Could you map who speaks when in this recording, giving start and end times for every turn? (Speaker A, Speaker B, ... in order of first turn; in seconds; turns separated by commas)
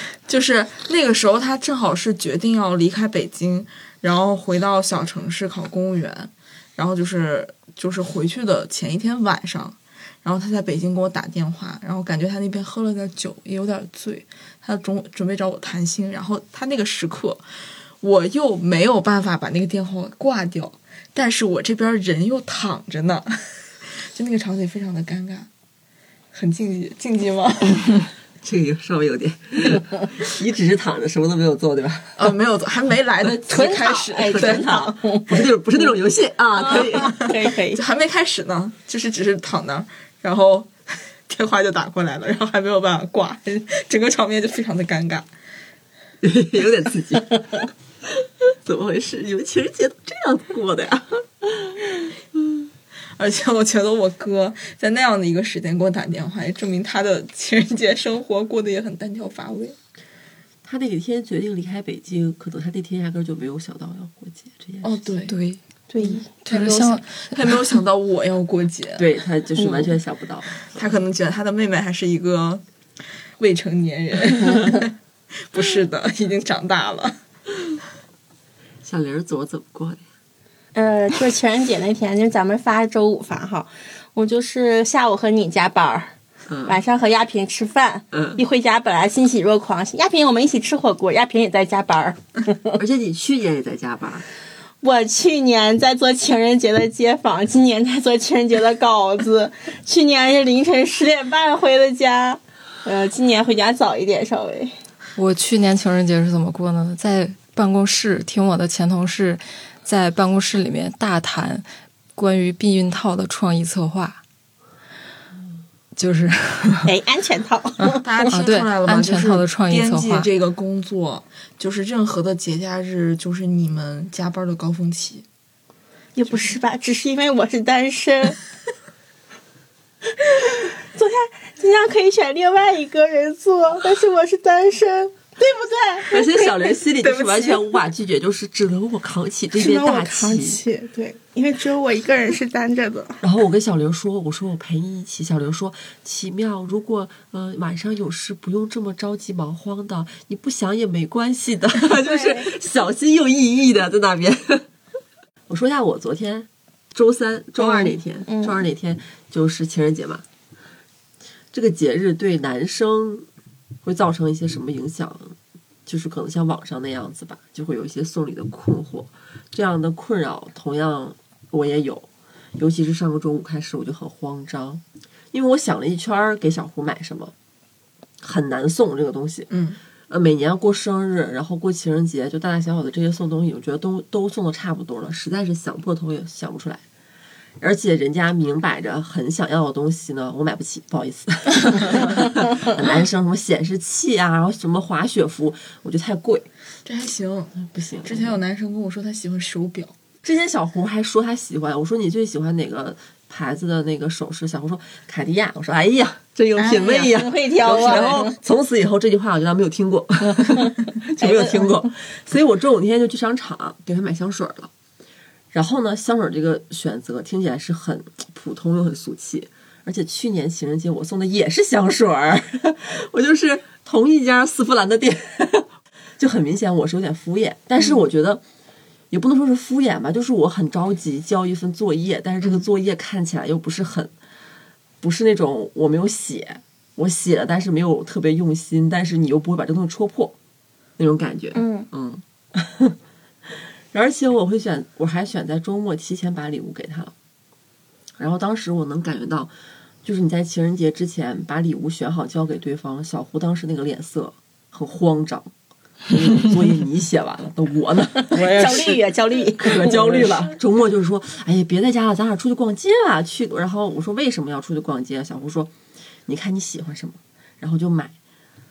Speaker A: 0.2-17.4, Speaker A: 18.0-23.3, Speaker A: 23.8-25.5, Speaker A: 26.3-28.1, Speaker B: 28.4-32.2, Speaker A: 32.2-34.9, Speaker C: 33.4-35.5, Speaker B: 34.3-37.3, Speaker C: 36.6-37.8, Speaker A: 36.8-40.7, Speaker A: 41.3-45.3, Speaker B: 46.2-47.7, Speaker B: 48.6-52.0, Speaker A: 53.2-59.8, Speaker B: 60.6-65.0, Speaker A: 64.8-65.3, Speaker D: 65.3-65.6, Speaker C: 65.9-66.2, Speaker A: 66.0-69.1, Speaker D: 66.4-67.8, Speaker B: 69.0-70.7, Speaker A: 70.7-72.6, Speaker A: 73.4-74.9, Speaker A: 75.5-77.2, Speaker B: 78.8-80.0, Speaker C: 80.7-86.1, Speaker B: 86.5-86.8, Speaker C: 86.7-92.8, Speaker B: 88.1-88.4, Speaker B: 92.8-94.2, Speaker C: 94.8-104.7, Speaker D: 105.2-111.6, Speaker D: 112.2-114.2, Speaker D: 116.0-116.9, Speaker C: 116.8-118.3, Speaker D: 117.8-120.3, Speaker A: 118.0-125.2, Speaker C: 126.1-128.4, Speaker C: 130.5-136.8, Speaker B: 136.1-140.6, Speaker A: 137.0-137.6, Speaker C: 139.5-143.2, Speaker B: 143.2-154.7, Speaker C: 152.0-152.5, Speaker B: 155.5-160.2, Speaker C: 157.6-158.6, Speaker B: 161.5-163.2, Speaker B: 163.8-177.3, Speaker B: 178.2-179.5, Speaker A: 179.5-179.8, Speaker B: 180.1-186.8, Speaker B: 187.6-196.5, Speaker A: 196.8-199.9, Speaker B: 197.6-198.4, Speaker B: 200.2-214.7, Speaker A: 206.6-207.1, Speaker C: 206.8-208.4, Speaker A: 207.7-208.2, Speaker C: 210.3-211.9, Speaker B: 215.5-228.4, Speaker B: 229.1-234.1, Speaker B: 235.0-240.3, Speaker B: 241.0-247.1, Speaker C: 241.5-241.9, Speaker B: 248.2-249.5, Speaker B: 250.0-255.5, Speaker B: 256.1-259.0, Speaker C: 258.2-260.3, Speaker B: 259.6-265.7, Speaker B: 266.2-268.1